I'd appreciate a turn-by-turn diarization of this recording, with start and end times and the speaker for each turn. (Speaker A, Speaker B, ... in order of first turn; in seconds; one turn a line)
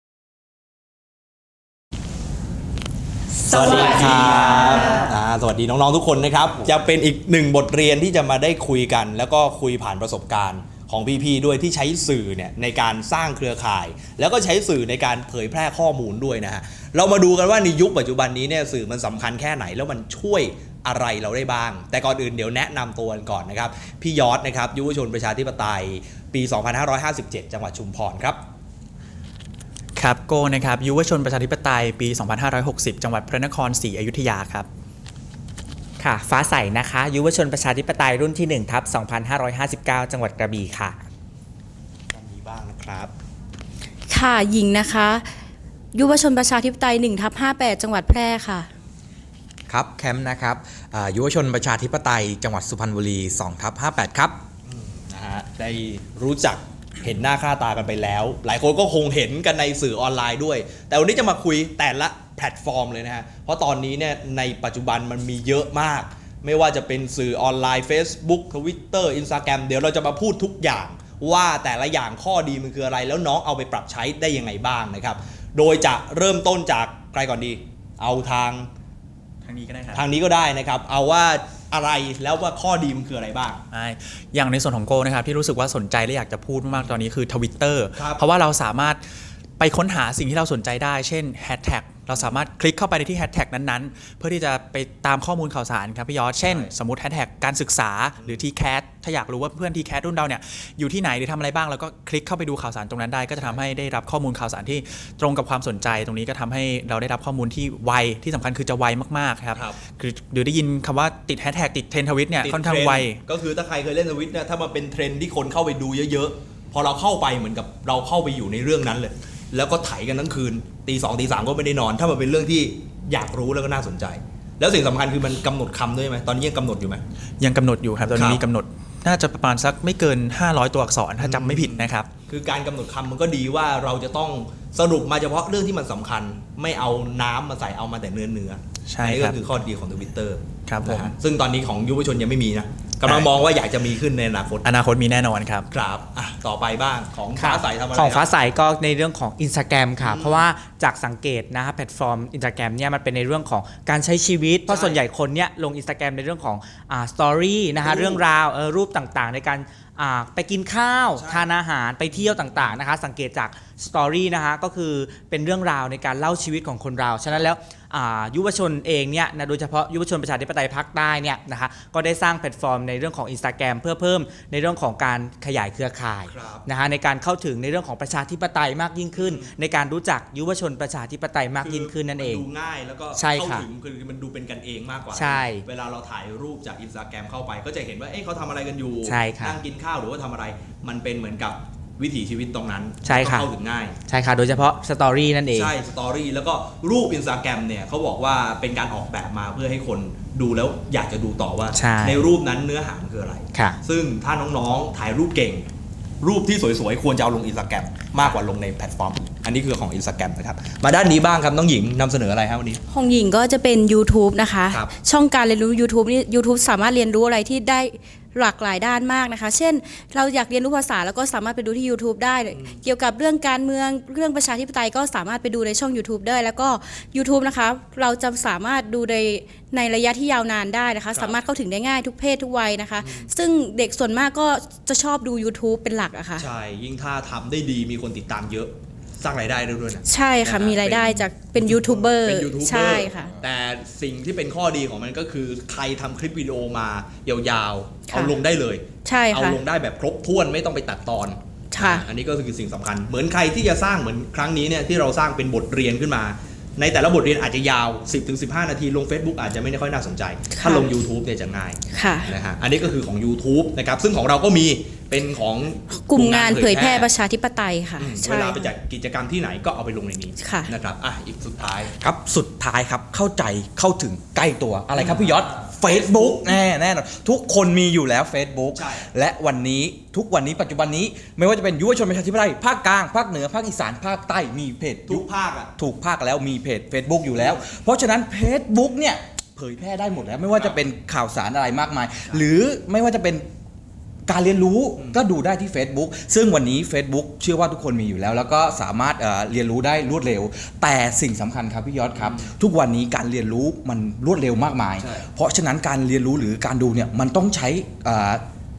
Speaker A: 3.5-28.4
Speaker B: 30.0-34.7
Speaker C: 36.0-41.0
Speaker A: 42.1-43.1
Speaker D: 44.1-45.3
Speaker D: 45.9-48.7
Speaker E: 49.7-54.4
Speaker A: 54.7-78.7
Speaker B: 79.4-80.0
Speaker A: 79.9-83.6
Speaker B: 83.7-89.0
Speaker A: 88.0-88.2
Speaker B: 89.6-113.2
Speaker A: 96.4-96.7
Speaker A: 98.2-98.4
Speaker A: 103.4-103.6
Speaker A: 109.5-109.8
Speaker A: 112.4-127.0
Speaker B: 127.4-132.1
Speaker A: 128.1-128.4
Speaker A: 131.2-144.7
Speaker B: 138.9-139.4
Speaker B: 140.7-141.1
Speaker B: 144.6-145.7
Speaker A: 145.7-148.3
Speaker D: 147.4-148.2
Speaker C: 147.4-182.4
Speaker A: 150.0-150.5
Speaker A: 154.7-155.0
Speaker A: 157.8-158.2
Speaker A: 161.2-161.5
Speaker A: 162.1-162.7
Speaker A: 176.3-176.7
Speaker A: 179.1-179.5
Speaker A: 181.6-194.0
Speaker C: 183.2-183.7
Speaker C: 185.2-185.7
Speaker C: 189.1-189.6
Speaker C: 193.0-193.5
Speaker C: 194.1-195.7
Speaker A: 195.5-205.7
Speaker C: 201.7-202.2
Speaker C: 203.5-203.8
Speaker A: 206.2-212.8
Speaker D: 212.9-236.4
Speaker A: 222.5-222.8
Speaker A: 231.1-231.4
Speaker A: 233.0-233.3
Speaker A: 236.4-267.1
Speaker D: 240.1-243.3
Speaker D: 248.1-248.3
Speaker D: 249.1-249.6
Speaker D: 251.7-252.1
Speaker D: 260.5-260.9
Speaker D: 261.9-262.3
Speaker D: 266.1-268.6
Speaker A: 268.0-272.0
Speaker D: 270.4-270.7
Speaker E: 272.0-285.2
Speaker A: 274.9-276.6
Speaker A: 278.7-279.1
Speaker A: 285.1-285.7
Speaker E: 285.8-293.4
Speaker A: 287.4-287.6
Speaker E: 294.3-308.4
Speaker A: 302.1-302.5
Speaker A: 305.0-305.2